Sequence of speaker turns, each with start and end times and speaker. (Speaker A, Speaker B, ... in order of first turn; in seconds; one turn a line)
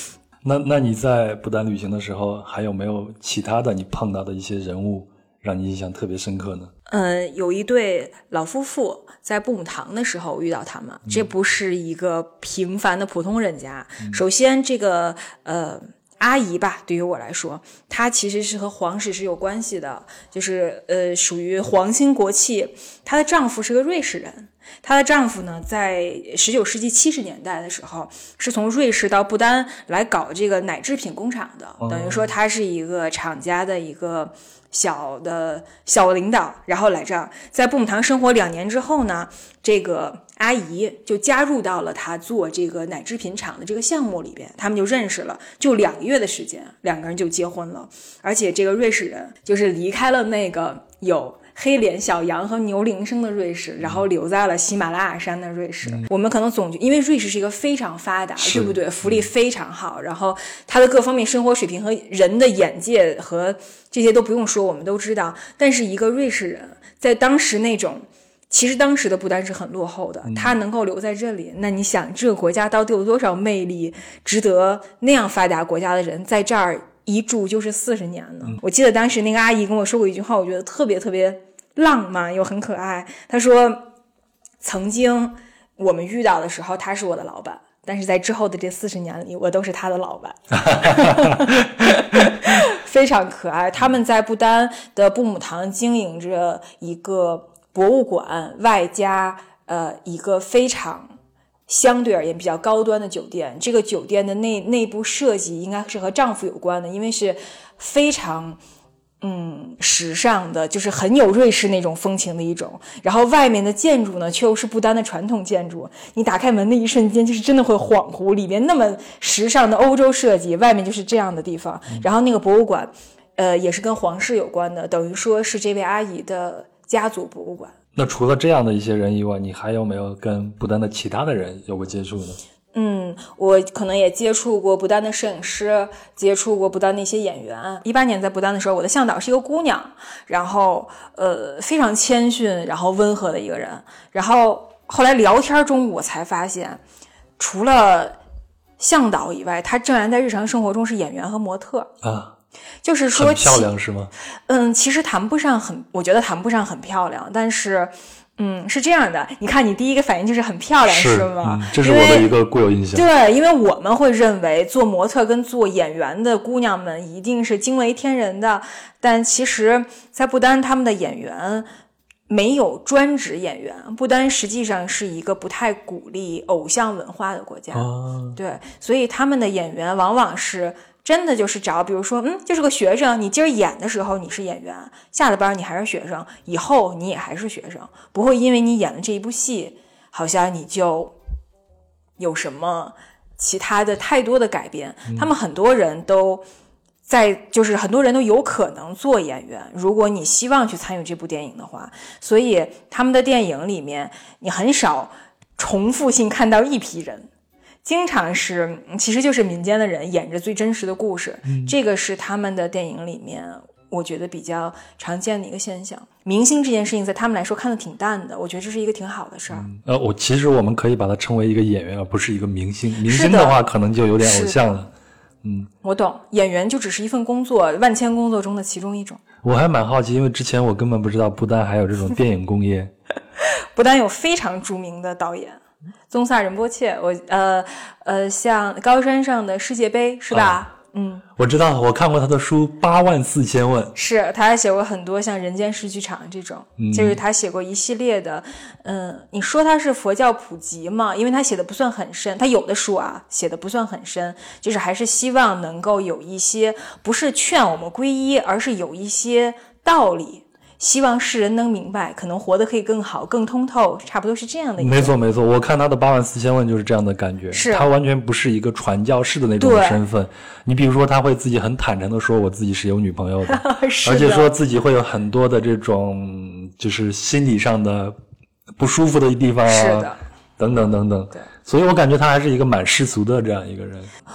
Speaker A: 0.4-6.7
Speaker B: 6.9-83.9
Speaker A: 31.8-32.3
Speaker A: 58.4-59.2
Speaker A: 70.3-70.5
Speaker B: 84.6-101.1
Speaker B: 101.7-108.6
Speaker B: 109.2-127.7
Speaker A: 128.0-132.4
Speaker B: 132.7-146.8
Speaker B: 147.4-148.2
Speaker B: 148.8-151.9
Speaker A: 152.0-152.3
Speaker B: 152.8-153.7
Speaker A: 153.1-154.1
Speaker B: 154.5-162.3
Speaker A: 160.8-163.1
Speaker B: 162.9-171.7
Speaker B: 172.3-191.2
Speaker A: 177.7-178.4
Speaker B: 192.2-196.4
Speaker B: 197.1-207.3
Speaker B: 207.8-219.7
Speaker A: 211.5-211.7
Speaker A: 219.6-224.9
Speaker B: 223.1-223.6
Speaker B: 224.2-224.6
Speaker A: 225.4-225.7
Speaker B: 225.8-229.2
Speaker A: 229.4-232.9
Speaker B: 233.4-241.2
Speaker A: 240.3-240.6
Speaker A: 241.4-243.9
Speaker B: 243.9-265.1
Speaker A: 246.8-247.2
Speaker A: 264.8-278.2
Speaker B: 267.5-267.9
Speaker B: 269.6-270.0
Speaker B: 273.5-274.5
Speaker A: 278.8-284.1
Speaker B: 279.6-280.2